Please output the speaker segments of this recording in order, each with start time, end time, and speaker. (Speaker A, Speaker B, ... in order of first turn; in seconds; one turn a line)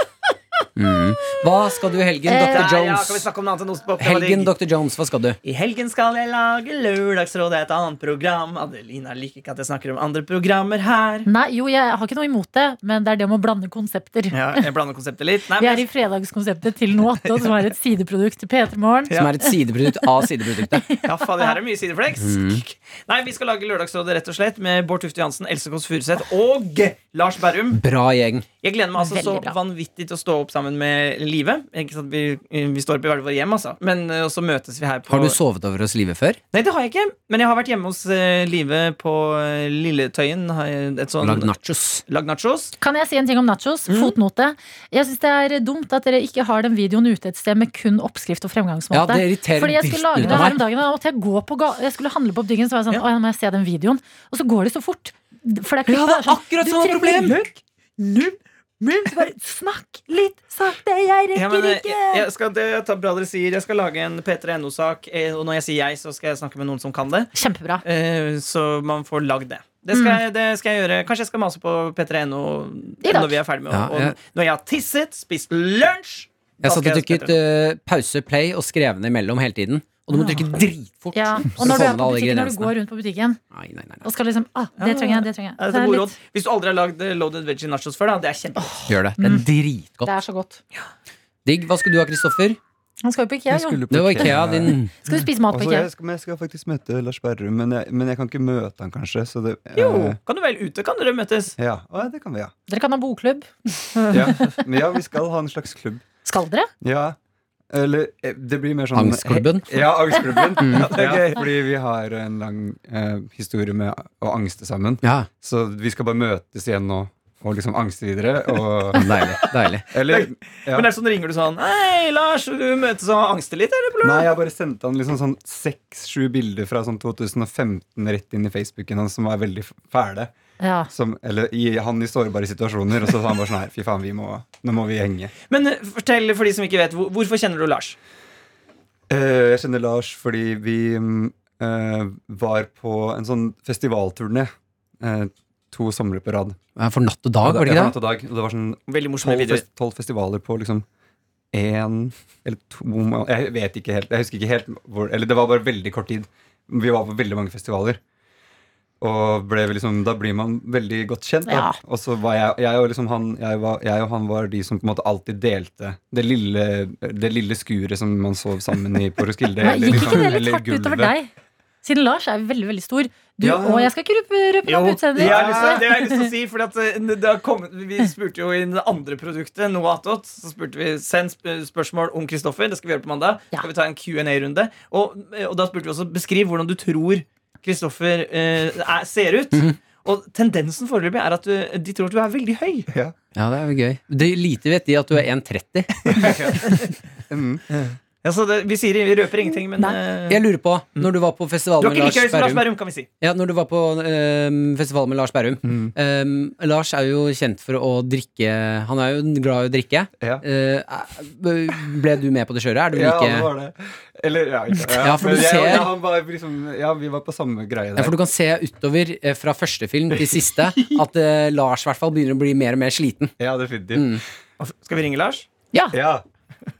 Speaker A: 0.8-3.3
Speaker B: 2.2-2.7
Speaker C: 2.4-4.6
Speaker A: 4.0-5.4
Speaker C: 5.4-11.3
Speaker B: 11.2-14.7
Speaker C: 14.3-15.8
Speaker B: 15.5-21.6
Speaker C: 19.1-19.3
Speaker A: 19.1-20.9
Speaker C: 21.0-27.8
Speaker A: 22.2-22.6
Speaker A: 27.7-28.4
Speaker C: 28.6-35.4
Speaker B: 28.9-29.6
Speaker A: 35.1-36.4
Speaker C: 36.5-41.5
Speaker A: 41.2-42.0
Speaker C: 42.1-42.7
Speaker B: 42.8-62.2
Speaker C: 43.9-44.1
Speaker A: 48.9-50.6
Speaker A: 55.9-57.4
Speaker C: 61.3-67.3
Speaker B: 67.3-67.8
Speaker C: 67.8-77.3
Speaker B: 69.9-70.2
Speaker B: 73.0-73.4
Speaker A: 73.7-74.2
Speaker A: 76.6-82.7
Speaker B: 80.1-80.5
Speaker B: 81.1-83.4
Speaker A: 83.5-84.0
Speaker B: 84.0-86.2
Speaker C: 84.8-88.7
Speaker B: 88.5-89.5
Speaker A: 88.9-90.1
Speaker B: 90.0-90.6
Speaker A: 91.4-92.6
Speaker B: 93.0-93.8
Speaker D: 93.5-94.8
Speaker A: 93.9-94.9
Speaker B: 95.0-95.9
Speaker D: 95.5-100.2
Speaker C: 99.7-101.5
Speaker D: 101.6-102.5
Speaker B: 102.7-104.5
Speaker D: 104.1-106.0
Speaker B: 106.2-106.7
Speaker D: 106.8-107.2
Speaker D: 107.7-119.1
Speaker A: 108.9-109.9
Speaker A: 110.6-110.9
Speaker C: 110.7-111.5
Speaker A: 118.9-119.9
Speaker D: 119.9-120.9
Speaker C: 120.0-124.3
Speaker D: 124.0-130.3
Speaker B: 130.6-130.9
Speaker D: 130.9-135.3
Speaker C: 135.5-137.9
Speaker D: 139.1-146.6
Speaker A: 146.8-147.9
Speaker D: 147.4-150.8
Speaker C: 148.9-149.6
Speaker D: 151.5-158.0
Speaker D: 159.0-171.1
Speaker B: 161.5-161.8
Speaker B: 169.6-171.3
Speaker B: 171.8-176.2
Speaker D: 173.4-173.9
Speaker C: 174.7-192.9
Speaker D: 175.2-175.8
Speaker A: 193.3-196.1
Speaker D: 196.1-196.7
Speaker C: 196.2-196.7
Speaker D: 197.3-197.6
Speaker C: 197.7-201.1
Speaker A: 200.3-202.7
Speaker C: 201.8-203.1
Speaker A: 203.2-213.5
Speaker D: 205.6-205.9
Speaker D: 212.9-218.2
Speaker A: 215.0-215.9
Speaker A: 217.9-223.3
Speaker D: 223.4-224.2
Speaker A: 223.9-224.2
Speaker C: 224.6-225.5
Speaker D: 225.9-226.2